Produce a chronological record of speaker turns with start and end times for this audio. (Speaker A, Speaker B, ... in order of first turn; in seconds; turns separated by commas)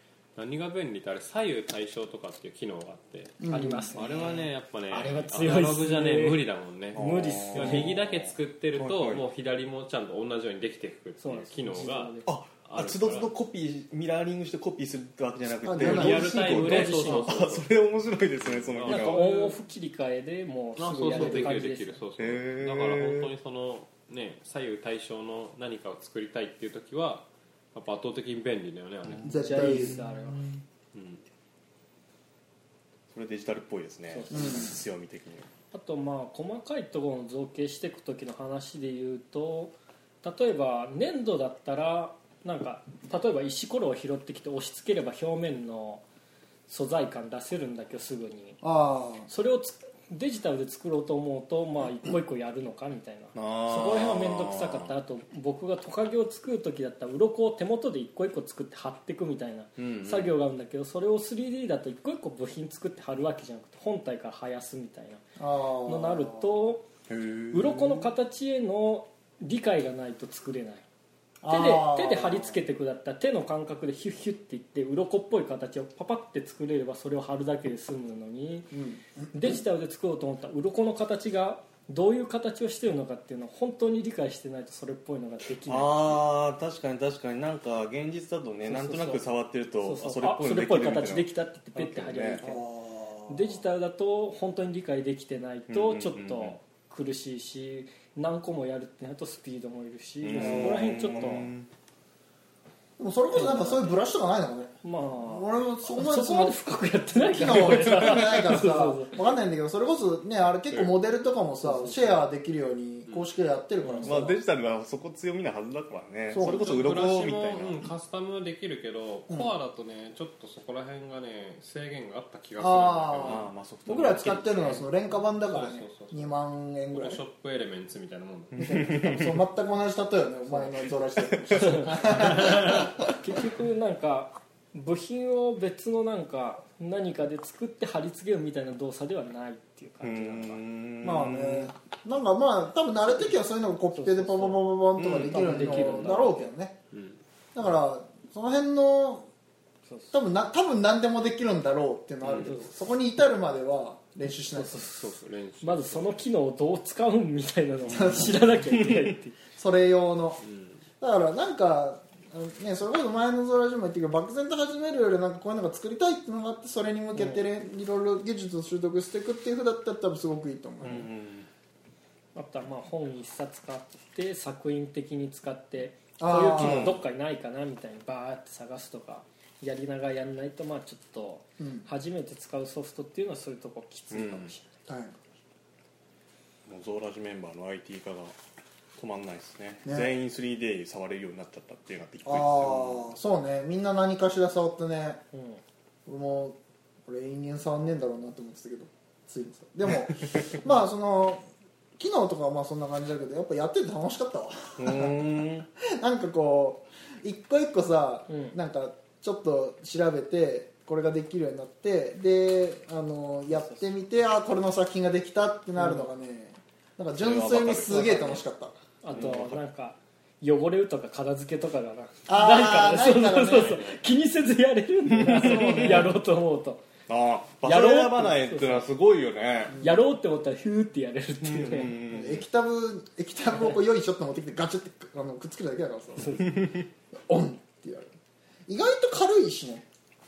Speaker A: 0.4-13.3, Speaker B: 3.4-4.0, Speaker C: 3.5-4.3, Speaker C: 4.9-6.4, Speaker C: 6.9-8.0, Speaker D: 7.0-9.2, Speaker C: 11.2-12.3, Speaker D: 12.2-19.2, Speaker B: 15.6-16.4, Speaker A: 15.8-17.8, Speaker C: 15.9-17.5, Speaker A: 18.4-19.6, Speaker C: 18.9-22.0, Speaker A: 20.8-29.4, Speaker B: 21.1-21.6, Speaker D: 22.2-23.3, Speaker D: 29.1-30.6, Speaker B: 29.2-30.0, Speaker C: 29.3-30.5, Speaker A: 30.9-31.2, Speaker D: 33.1-35.5, Speaker C: 34.1-34.7, Speaker B: 34.3-34.8, Speaker C: 35.7-46.0, Speaker C: 46.7-48.6, Speaker B: 48.6-49.3, Speaker C: 49.3-65.2, Speaker D: 53.3-54.9, Speaker D: 59.8-60.4, Speaker B: 65.4-66.5, Speaker C: 65.8-66.9, Speaker D: 67.1-68.1, Speaker C: 67.5-70.8, Speaker B: 71.4-72.6, Speaker C: 71.5-78.8, Speaker B: 78.7-79.5, Speaker C: 79.3-86.2, Speaker D: 85.6-92.5, Speaker C: 88.7-89.3, Speaker C: 89.8-92.7, Speaker B: 92.4-93.6, Speaker C: 93.3-101.5, Speaker D: 95.7-96.6, Speaker D: 100.2-101.7, Speaker B: 100.4-100.8, Speaker B: 103.0-106.6, Speaker C: 103.3-103.8, Speaker C: 104.8-109.2, Speaker B: 107.1-114.4, Speaker C: 111.6-112.2, Speaker D: 114.0-117.9, Speaker B: 116.3-116.8, Speaker A: 116.4-123.4, Speaker B: 122.6-127.2, Speaker D: 123.2-124.9, Speaker A: 125.4-126.3, Speaker A: 126.9-128.9, Speaker D: 128.6-129.4, Speaker B: 128.6-133.0, Speaker D: 130.8-132.8, Speaker C: 132.7-140.6, Speaker D: 140.0-141.7, Speaker B: 141.0-146.8, Speaker C: 143.9-146.4, Speaker D: 145.0-145.9, Speaker A: 146.9-147.2, Speaker B: 147.6-149.3, Speaker C: 149.9-150.2, Speaker B: 150.1-154.8, Speaker C: 154.5-159.4, Speaker A: 154.9-156.2, Speaker B: 157.9-158.5, Speaker D: 158.7-159.1, Speaker B: 159.6-160.4, Speaker A: 160.4-160.8, Speaker B: 161.0-171.1, Speaker C: 167.2-167.4, Speaker D: 170.8-171.5, Speaker C: 172.3-184.8, Speaker B: 176.2-177.0, Speaker D: 176.4-177.0, Speaker B: 181.6-181.9, Speaker D: 184.1-184.5, Speaker B: 184.9-185.2, Speaker D: 186.7-188.3, Speaker D: 189.0-193.1, Speaker B: 189.8-190.1, Speaker B: 192.2-195.2, Speaker C: 195.3-195.6, Speaker B: 196.1-201.4, Speaker B: 202.0-205.2, Speaker D: 204.8-205.7, Speaker B: 205.8-218.8, Speaker C: 208.3-208.6, Speaker D: 217.2-218.4, Speaker C: 219.0-226.8, Speaker D: 219.1-219.6, Speaker B: 222.3-223.8, Speaker A: 223.4-224.0, Speaker D: 225.1-226.1, Speaker B: 225.3-226.2, Speaker D: 227.1-229.8, Speaker C: 227.6-228.9, Speaker B: 229.7-230.0, Speaker C: 229.8-231.9, Speaker D: 231.4-232.4, Speaker B: 232.1-238.1, Speaker C: 236.2-236.5, Speaker D: 236.4-236.8, Speaker B: 238.7-239.9